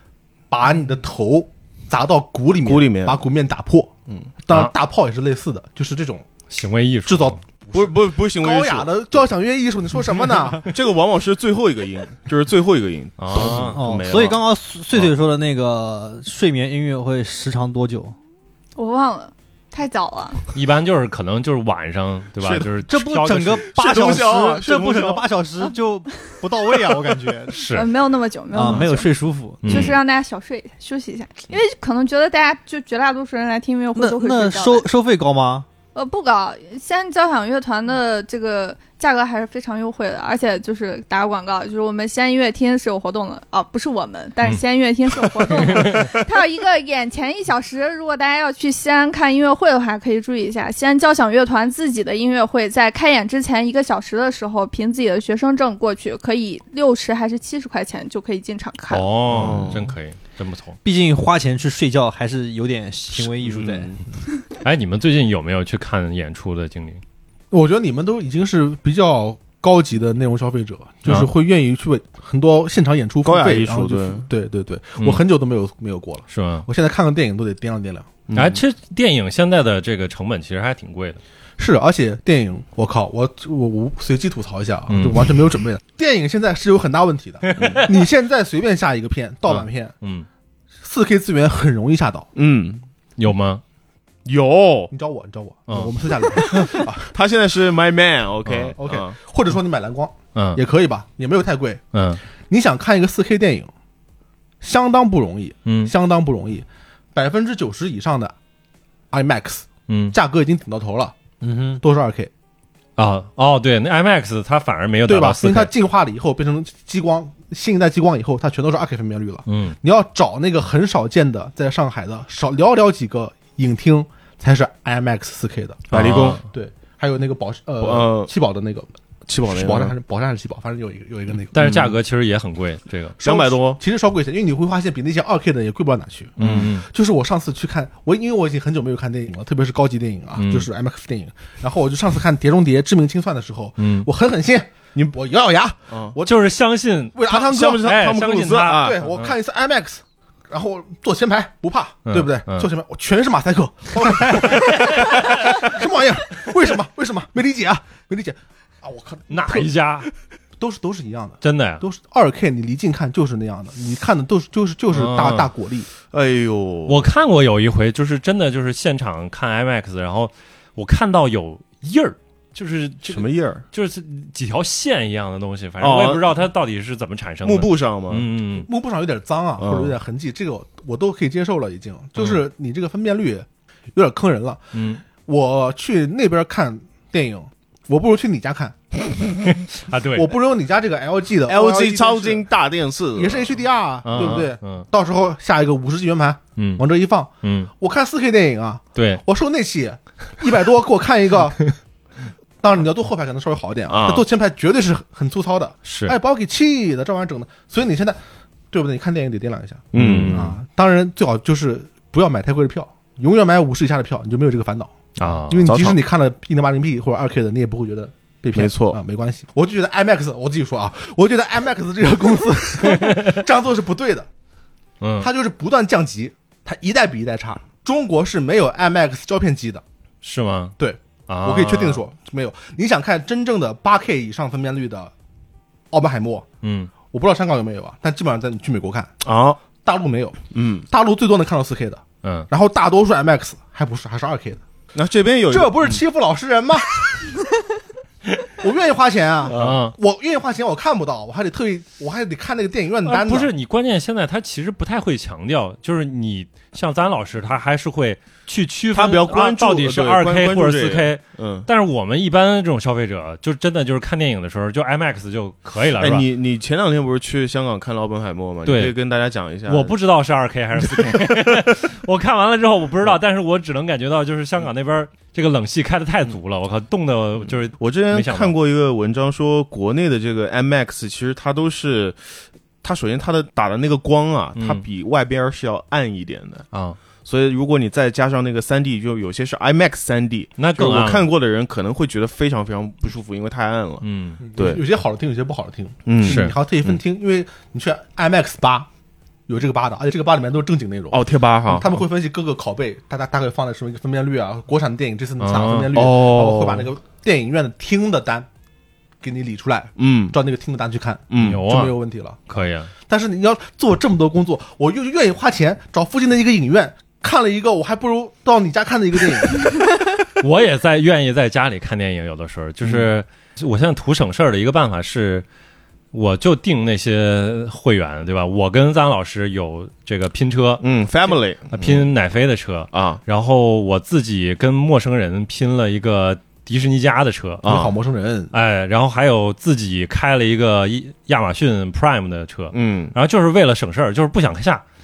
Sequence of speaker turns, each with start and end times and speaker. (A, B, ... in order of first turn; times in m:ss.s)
0:00.5-0:03.9 A
0:02.6-0:03.2 B
0:04.4-0:06.3 A
0:06.5-0:07.4 C
0:07.1-0:10.7 A
0:07.7-0:09.2 B
0:10.6-0:14.4 B
0:13.2-0:13.8 C
0:13.4-0:18.2 D
0:18.8-0:20.4 E
0:20.5-0:23.7 C
0:22.4-0:22.7 B
0:22.8-0:27.6 D
0:23.6-0:25.3 B
0:27.5-0:27.9 C
0:27.7-0:34.9 E
0:28.5-0:29.8 D
0:29.6-0:30.0 C
0:29.7-0:29.9 B
0:34.0-0:35.7 D
0:35.9-0:59.1 E
0:45.4-0:46.2 C
0:58.9-1:00.8 C
0:59.3-0:59.9 B
1:00.8-1:04.0 D
1:03.2-1:04.0 B
1:04.6-1:07.0 C
1:07.5-1:18.1 A
1:13.2-1:14.3 B
1:16.3-1:16.7 C
1:18.3-1:18.6 B
1:18.3-1:21.2 C
1:21.6-1:29.9 A
1:24.9-1:25.4 C
1:27.5-1:27.9 C
1:27.6-1:27.9 B
1:29.5-1:30.3 C
1:30.8-1:32.3 A
1:32.4-1:32.8 B
1:33.2-1:33.6 C
1:34.2-1:34.9 B
1:34.9-1:37.1 A
1:35.7-1:35.9 C
1:36.5-1:39.2 B
1:38.5-1:38.7 C
1:38.8-1:41.8 A
1:40.4-1:40.6 C
1:41.9-1:42.2 C
1:42.5-1:43.7 A
1:44.6-1:48.4 A
1:45.7-1:45.9 C
1:49.1-1:51.2 A
1:49.9-1:50.2 C
1:51.4-1:51.8 D
1:51.8-1:52.3 A
1:53.0-1:55.7 C
1:55.1-2:08.9 A
1:59.5-1:59.8 C
2:05.9-2:06.4 C
2:05.9-2:06.4 B
2:07.8-2:08.3 B
2:09.3-2:09.9 B
2:09.4-2:11.8 A
2:11.5-2:13.2 C
2:11.6-2:11.9 B
2:13.2-2:26.5 A
2:13.2-2:13.8 B
2:16.4-2:16.9 C
2:16.4-2:16.7 B
2:20.4-2:20.7 C
2:23.8-2:24.1 C
2:25.9-2:26.2 B
2:26.2-2:29.3 C
2:27.2-2:27.9 A
2:27.3-2:29.0 B
2:28.7-2:39.7 A
2:32.1-2:32.7 C
2:34.3-2:35.6 C
2:39.3-2:40.1 C
2:40.6-2:45.9 A
2:41.4-2:41.8 C
2:44.9-2:45.5 C
2:46.1-2:47.0 B
2:46.9-2:58.7 C
2:53.1-2:53.6 B
2:55.8-2:56.4 B
2:57.4-2:58.3 B
2:58.6-3:08.8 A
2:59.6-3:00.0 B
3:02.2-3:02.4 C
3:04.7-3:05.0 C
3:09.7-3:10.3 C
3:10.1-3:12.5 A
3:11.5-3:13.5 B
3:13.1-3:21.7 A
3:14.0-3:14.9 C
3:16.6-3:16.8 C
3:17.4-3:17.7 C
3:19.0-3:19.2 C
3:22.6-3:28.2 A
3:23.9-3:24.2 B
3:25.8-3:26.2 C
3:28.7-3:44.3 A
3:29.9-3:30.5 B
3:29.9-3:30.6 C
3:35.2-3:35.8 C
3:35.7-3:36.0 B
3:38.5-3:39.0 B
3:42.9-3:43.4 C
3:45.0-3:45.3 C
3:45.2-3:49.8 A
3:50.2-3:50.8 C
3:50.8-3:55.1 A
3:51.3-3:52.0 C
3:55.9-3:56.5 A
3:56.6-3:56.9 C
3:57.1-3:59.1 A
3:59.2-3:59.6 B
3:59.8-4:04.6 A
4:00.5-4:00.9 B
4:02.2-4:02.5 C
4:04.9-4:06.0 B
4:05.5-4:07.0 A
4:08.6-4:13.5 A
4:09.5-4:10.0 C
4:09.5-4:09.8 B
4:13.0-4:26.2 C
4:18.9-4:21.7 B
4:26.0-4:29.9 B
4:28.6-4:29.0 C
4:29.7-4:38.6 C
4:30.8-4:31.6 B
4:37.8-4:46.7 B
4:44.6-4:44.8 C
4:46.7-4:47.0 C
4:47.2-4:54.8 B
4:50.6-4:51.3 C
4:54.0-4:54.4 C
4:54.4-4:58.9 A
4:56.1-4:57.0 B
4:56.2-4:56.5 C
4:59.5-5:08.5 A
5:01.1-5:02.0 B
5:05.4-5:05.9 C
5:06.0-5:06.9 B
5:09.2-5:12.4 A
5:10.0-5:10.4 B
5:11.3-5:11.6 B
5:11.4-5:12.0 C
5:12.5-5:12.9 C
5:13.1-5:19.9 A
5:20.4-5:25.4 C
5:26.1-5:37.6 C
5:30.8-5:32.1 B
5:32.9-5:33.2 B
5:37.6-5:37.9 B
5:37.6-5:38.5 A
5:38.5-5:44.8 C
5:42.7-5:43.1 B